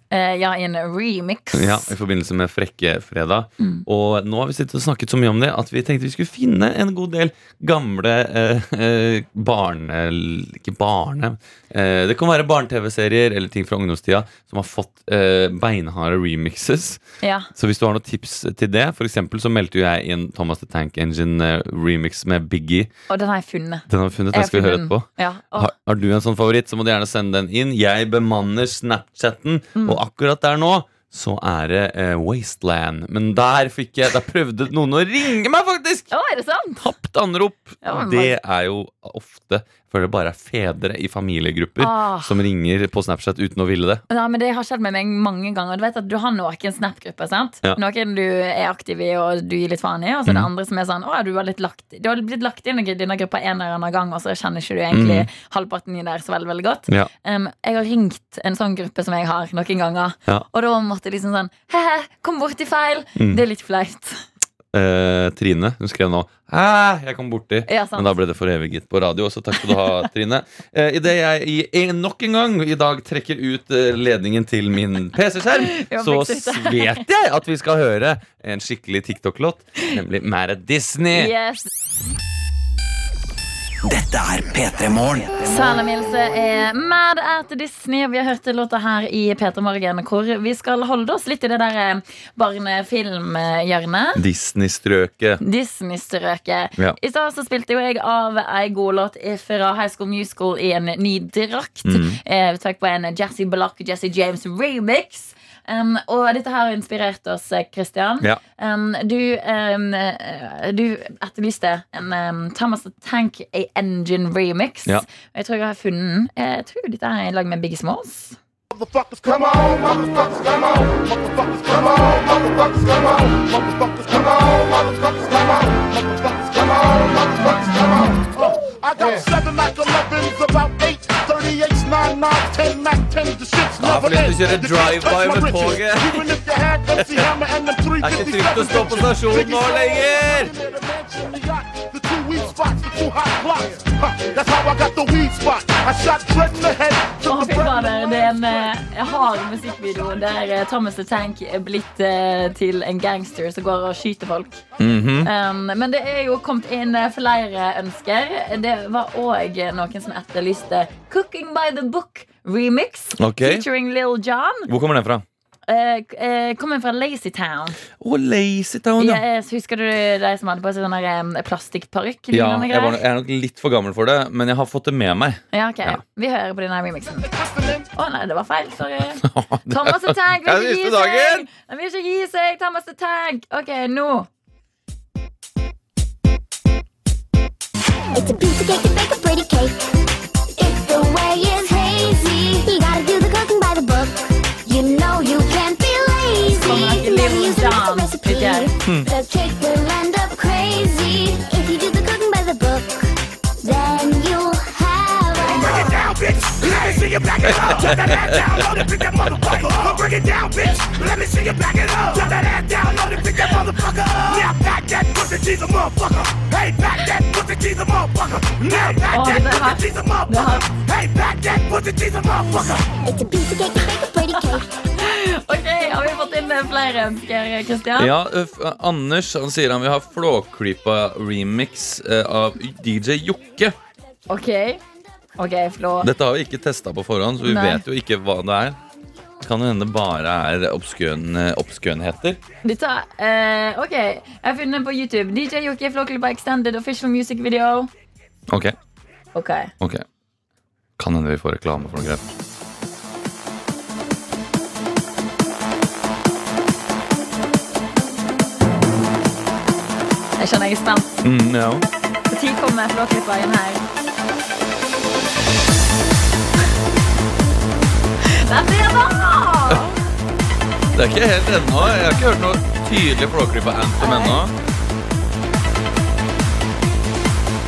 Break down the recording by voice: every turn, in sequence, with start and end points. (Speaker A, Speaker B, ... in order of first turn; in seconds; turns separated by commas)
Speaker A: 0.1-1.9, Speaker B: 1.5-17.0, Speaker A: 3.6-3.8, Speaker A: 17.2-17.5, Speaker B: 17.5-22.9, Speaker A: 23.1-25.7, Speaker B: 23.9-36.1, Speaker A: 29.7-30.0, Speaker A: 36.1-36.9, Speaker B: 36.8-44.0, Speaker A: 37.8-38.4, Speaker A: 41.8-42.4, Speaker A: 44.1-64.2, Speaker B: 54.9-55.3, Speaker B: 63.1-63.4, Speaker B: 64.7-81.3, Speaker A: 67.7-68.2, Speaker A: 69.7-70.0, Speaker A: 75.6-77.0, Speaker A: 81.1-81.7, Speaker C: 83.8-85.8, Speaker A: 85.5-94.2, Speaker B: 94.2-95.4, Speaker A: 95.4-118.4, Speaker B: 101.8-102.2, Speaker D: 118.7-148.7, Speaker B: 133.8-136.3, Speaker B: 137.0-137.2, Speaker B: 138.0-140.5, Speaker A: 147.2-154.6, Speaker B: 154.8-155.3, Speaker A: 155.2-164.7, Speaker B: 163.2-163.7, Speaker B: 164.7-165.2, Speaker A: 165.7-167.8, Speaker B: 168.0-169.2, Speaker A: 169.0-173.0, Speaker B: 172.3-176.0, Speaker A: 175.5-177.3, Speaker D: 177.2-177.9, Speaker A: 177.9-184.3, Speaker B: 179.2-181.5, Speaker E: 188.1-190.0, Speaker E: 190.6-205.9, Speaker A: 196.5-198.7, Speaker D: 205.4-222.9, Speaker B: 207.4-208.6, Speaker A: 219.1-220.7, Speaker E: 223.0-224.7, Speaker A: 224.8-228.1, Speaker B: 227.9-233.8, Speaker A: 234.3-234.8, Speaker A: 235.4-236.1, Speaker B: 236.0-238.8, Speaker A: 237.4-237.8, Speaker B: 239.4-242.4, Speaker A: 242.6-247.9, Speaker B: 248.5-248.7, Speaker A: 249.3-249.7, Speaker B: 249.8-250.1, Speaker B: 251.0-252.3, Speaker A: 260.4-261.2, Speaker B: 261.2-261.9, Speaker A: 262.3-263.8, Speaker A: 268.2-270.0, Speaker B: 270.9-274.5, Speaker A: 274.0-274.4